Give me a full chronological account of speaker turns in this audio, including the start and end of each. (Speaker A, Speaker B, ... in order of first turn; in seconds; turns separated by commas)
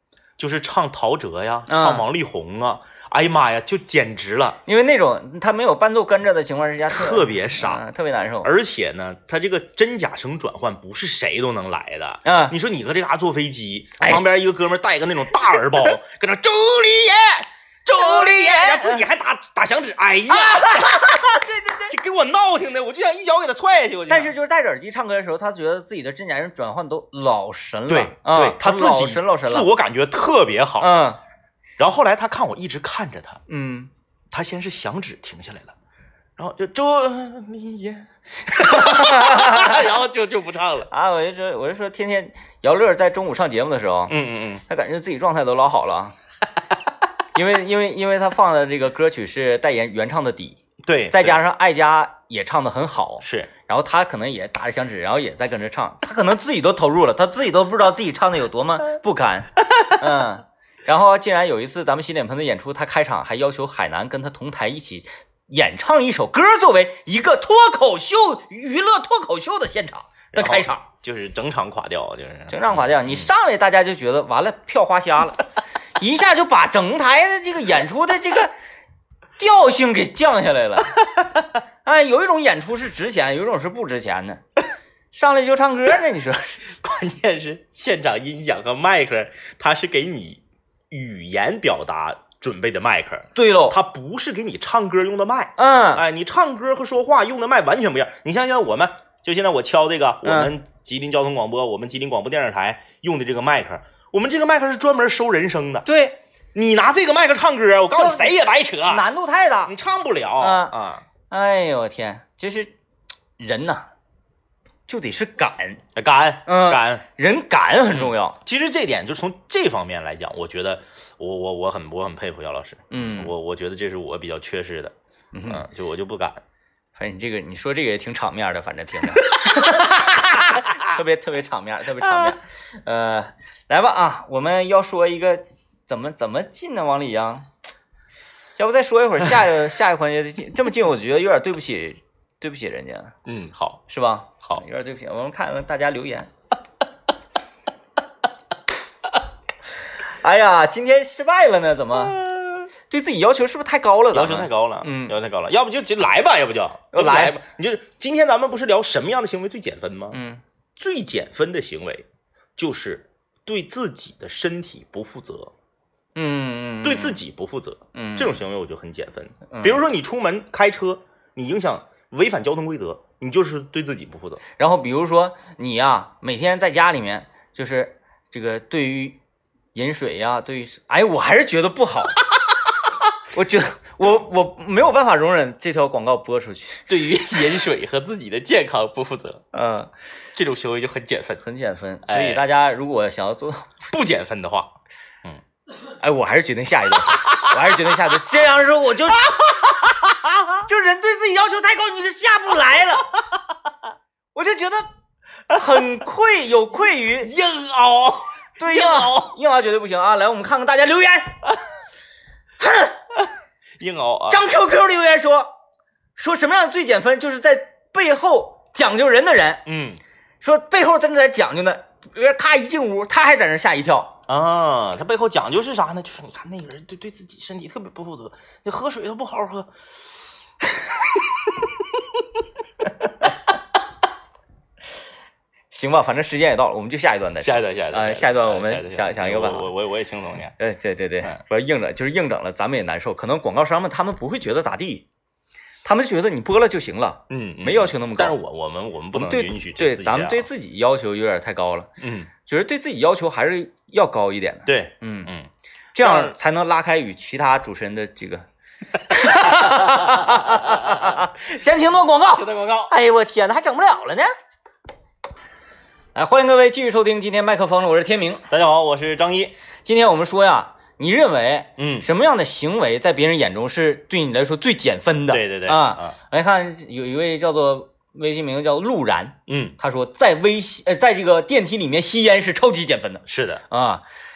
Speaker A: 0.4-4.6, Speaker B: 1.7-2.0, Speaker B: 4.7-8.5, Speaker A: 6.9-7.8, Speaker A: 8.4-21.2, Speaker B: 12.2-12.6, Speaker B: 18.0-19.0, Speaker B: 20.3-21.9, Speaker A: 21.9-24.3, Speaker B: 24.1-29.7, Speaker A: 27.9-30.9, Speaker B: 30.8-31.2, Speaker A: 31.8-33.4, Speaker B: 33.5-33.9, Speaker A: 34.3-35.8, Speaker A: 36.4-40.9, Speaker B: 38.6-39.9, Speaker B: 40.9-44.2, Speaker A: 44.1-44.6, Speaker B: 44.7-46.1, Speaker B: 47.3-50.6, Speaker A: 50.8-51.4, Speaker B: 51.1-70.8, Speaker A: 53.2-53.5, Speaker A: 70.3-73.3, Speaker B: 72.5-75.4, Speaker B: 76.0-78.5, Speaker B: 79.4-81.0, Speaker B: 81.8-84.4, Speaker B: 85.1-86.7, Speaker A: 86.8-105.8, Speaker B: 93.3-93.8, Speaker B: 95.6-96.0, Speaker B: 100.2-100.5, Speaker B: 105.9-106.2, Speaker A: 106.5-109.1, Speaker B: 108.0-108.3, Speaker B: 108.9-109.7, Speaker A: 109.7-111.0, Speaker B: 110.4-110.8, Speaker B: 111.3-112.7, Speaker B: 113.4-113.9, Speaker B: 114.9-115.8, Speaker A: 116.0-117.0, Speaker B: 116.5-118.4, Speaker A: 117.9-124.9, Speaker B: 122.9-123.3, Speaker B: 125.3-125.7, Speaker A: 125.5-126.4, Speaker B: 127.0-137.5, Speaker B: 138.6-143.2, Speaker A: 143.3-143.8, Speaker B: 143.9-146.3, Speaker B: 150.1-152.2, Speaker A: 152.0-152.5, Speaker B: 152.9-155.2, Speaker A: 154.1-160.2, Speaker B: 156.9-157.4, Speaker B: 160.1-160.4, Speaker A: 160.8-162.1, Speaker A: 162.6-165.5, Speaker B: 166.2-167.2, Speaker A: 166.8-174.4, Speaker B: 167.9-168.4, Speaker B: 169.5-169.8, Speaker B: 174.6-179.2, Speaker B: 179.7-182.2, Speaker B: 183.3-186.9, Speaker A: 186.9-189.4, Speaker B: 189.5-189.9, Speaker A: 190.4-191.4, Speaker B: 191.4-193.8, Speaker A: 192.1-192.4, Speaker A: 193.9-194.7, Speaker B: 196.0-199.4, Speaker A: 197.1-198.0, Speaker A: 200.0-200.4, Speaker B: 200.7-203.1, Speaker B: 204.3-204.8, Speaker B: 205.5-207.3, Speaker A: 207.2-209.4, Speaker B: 208.6-211.4, Speaker B: 212.6-212.9, Speaker A: 213.8-214.4, Speaker B: 214.3-215.5, Speaker B: 216.2-219.6, Speaker A: 219.7-220.0, Speaker B: 220.4-224.2, Speaker A: 224.3-229.7, Speaker A: 230.6-231.7, Speaker B: 235.7-239.7, Speaker A: 237.4-240.6, Speaker B: 240.6-245.1, Speaker B: 245.8-248.4, Speaker A: 247.3-250.5, Speaker B: 249.1-251.9, Speaker A: 252.0-252.3, Speaker B: 252.4-255.3, Speaker A: 254.7-255.5, Speaker B: 255.9-258.5, Speaker A: 256.0-256.4, Speaker B: 259.0-264.3, Speaker A: 259.6-261.2, Speaker A: 262.4-262.9, Speaker B: 266.1-268.5, Speaker A: 268.5-269.5, Speaker B: 269.9-284.0, Speaker A: 271.8-272.1, Speaker A: 275.3-276.2, Speaker A: 279.5-279.8, Speaker A: 283.3-283.6